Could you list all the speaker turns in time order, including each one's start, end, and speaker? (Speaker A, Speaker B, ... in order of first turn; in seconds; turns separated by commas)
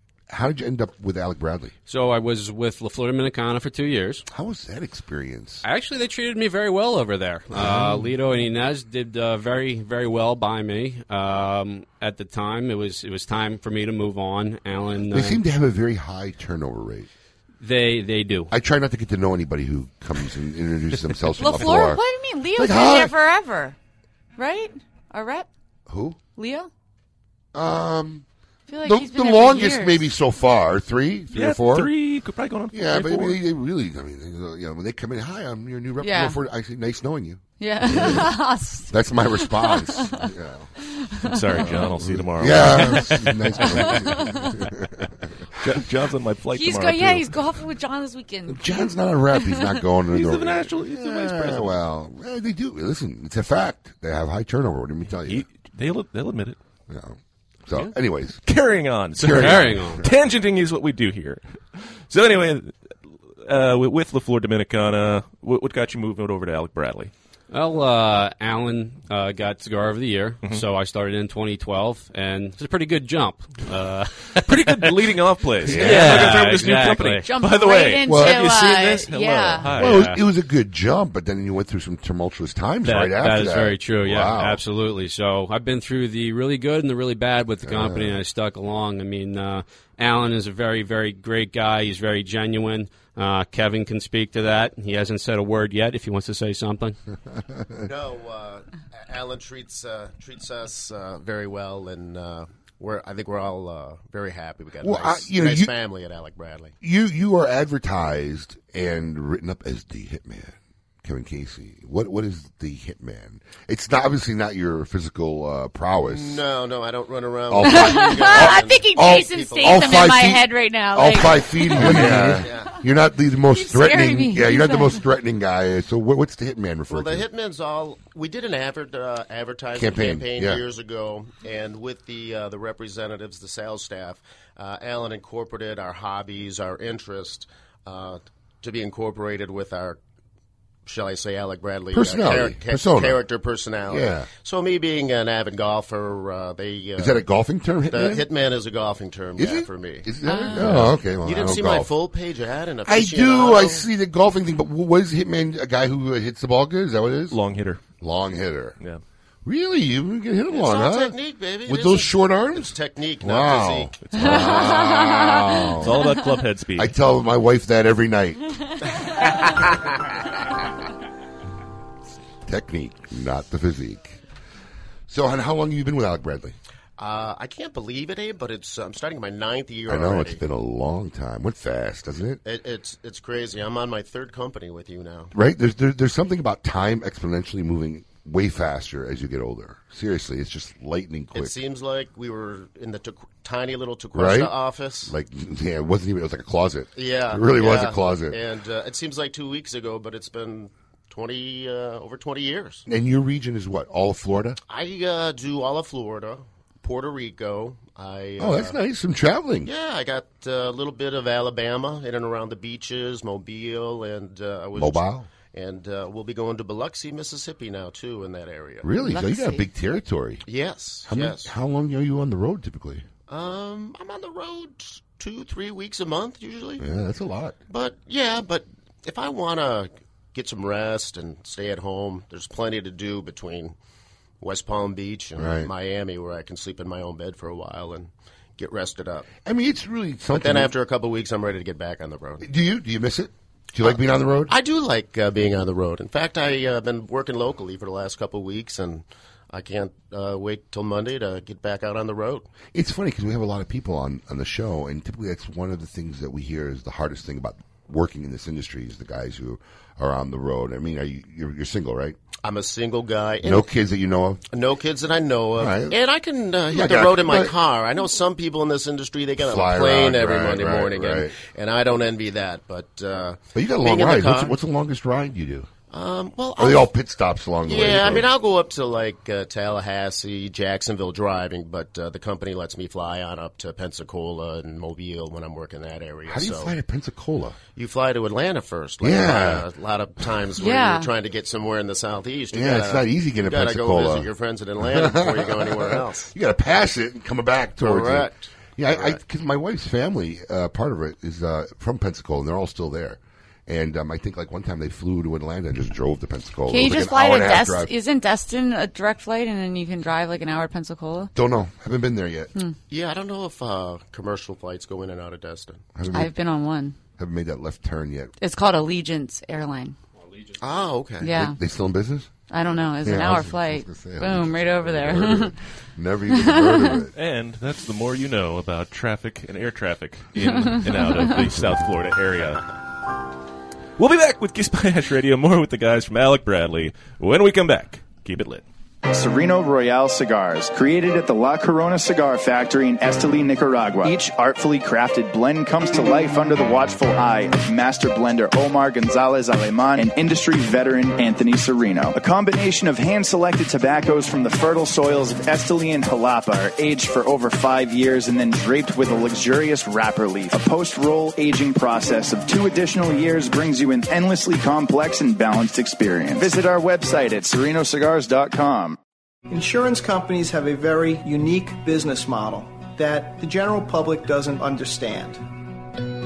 Speaker A: 0.3-1.7, Speaker B: 1.9-4.2, Speaker A: 4.3-5.6, Speaker B: 5.6-15.4, Speaker A: 7.5-8.1, Speaker A: 15.1-17.1, Speaker B: 17.6-18.5, Speaker A: 18.5-22.0, Speaker C: 21.4-23.8, Speaker A: 22.5-23.1, Speaker C: 24.4-25.5, Speaker A: 25.9-26.2, Speaker C: 26.4-26.7, Speaker A: 27.5-28.2, Speaker C: 28.7-30.1, Speaker A: 28.8-31.9, Speaker D: 31.3-33.4, Speaker A: 32.7-40.7, Speaker C: 36.0-36.4, Speaker C: 37.6-40.3, Speaker C: 40.9-41.8, Speaker D: 41.2-44.0, Speaker A: 41.6-45.3, Speaker C: 43.6-44.6, Speaker D: 45.6-47.4, Speaker C: 46.5-49.6, Speaker A: 48.5-55.5, Speaker D: 50.1-51.8, Speaker D: 55.3-56.6, Speaker A: 56.9-58.4, Speaker D: 58.5-62.8, Speaker A: 59.2-60.1, Speaker B: 59.4-60.0, Speaker D: 63.5-67.1, Speaker B: 67.5-74.9, Speaker D: 74.5-80.1, Speaker A: 75.6-76.4, Speaker B: 75.7-77.3, Speaker C: 77.2-79.7, Speaker A: 78.0-78.5, Speaker A: 79.7-84.6, Speaker B: 79.8-80.2, Speaker B: 82.8-97.0, Speaker A: 87.6-88.2, Speaker A: 97.3-97.8, Speaker E: 97.8-106.7, Speaker A: 104.8-105.7, Speaker A: 106.8-116.4, Speaker E: 116.1-119.9, Speaker A: 117.5-127.3, Speaker C: 117.6-122.5, Speaker E: 121.8-122.7, Speaker C: 123.5-125.0, Speaker E: 126.9-140.0, Speaker A: 129.7-130.6, Speaker E: 140.9-147.2, Speaker A: 141.9-143.2, Speaker A: 143.9-144.3, Speaker A: 147.0-148.3, Speaker E: 147.9-153.9, Speaker A: 149.4-151.9, Speaker C: 150.2-150.7, Speaker A: 152.9-157.4, Speaker D: 157.3-157.8, Speaker A: 158.0-158.8, Speaker A: 159.4-166.1, Speaker E: 160.5-163.9, Speaker D: 164.1-164.5, Speaker C: 164.5-165.2, Speaker D: 165.8-166.9, Speaker A: 166.8-168.4, Speaker A: 172.5-174.2, Speaker A: 175.1-176.6, Speaker E: 177.0-180.4, Speaker A: 179.9-182.4, Speaker E: 182.4-185.3, Speaker A: 185.3-191.6, Speaker E: 191.3-195.1, Speaker A: 194.2-198.4, Speaker E: 197.0-202.8, Speaker A: 202.9-204.6, Speaker E: 204.7-208.8, Speaker A: 208.4-209.7, Speaker E: 209.7-218.9, Speaker A: 214.8-215.3, Speaker A: 218.8-220.4, Speaker C: 219.0-219.7, Speaker E: 220.5-221.5, Speaker A: 221.1-223.1, Speaker E: 223.3-226.8, Speaker A: 226.8-227.6, Speaker E: 227.7-233.8, Speaker E: 234.4-239.3, Speaker A: 235.4-235.7, Speaker A: 239.4-240.7, Speaker E: 240.3-242.5, Speaker A: 242.4-244.5, Speaker E: 243.8-252.5, Speaker A: 252.7-262.2, Speaker E: 262.4-263.7, Speaker A: 263.4-264.4, Speaker E: 264.5-274.6, Speaker A: 265.6-266.0, Speaker A: 266.7-267.6, Speaker A: 269.4-271.4, Speaker A: 273.6-275.7, Speaker E: 275.9-276.9, Speaker A: 276.6-278.3, Speaker E: 277.7-286.7, Speaker A: 286.3-287.6, Speaker E: 287.8-296.3, Speaker A: 289.0-289.7, Speaker C: 290.6-291.1, Speaker A: 292.5-294.3, Speaker A: 294.8-307.9, Speaker E: 297.8-299.2, Speaker C: 306.7-311.3, Speaker A: 311.3-312.5, Speaker E: 312.9-315.9, Speaker A: 315.9-316.3, Speaker C: 316.1-317.0, Speaker A: 317.2-318.3, Speaker C: 318.4-320.0, Speaker E: 320.6-321.3, Speaker C: 321.2-321.6, Speaker A: 321.2-322.3, Speaker C: 322.5-325.5, Speaker A: 323.0-327.1, Speaker C: 326.4-327.0, Speaker D: 327.1-332.7, Speaker C: 330.4-331.3, Speaker D: 334.0-338.6, Speaker F: 339.1-369.0, Speaker G: 369.5-375.4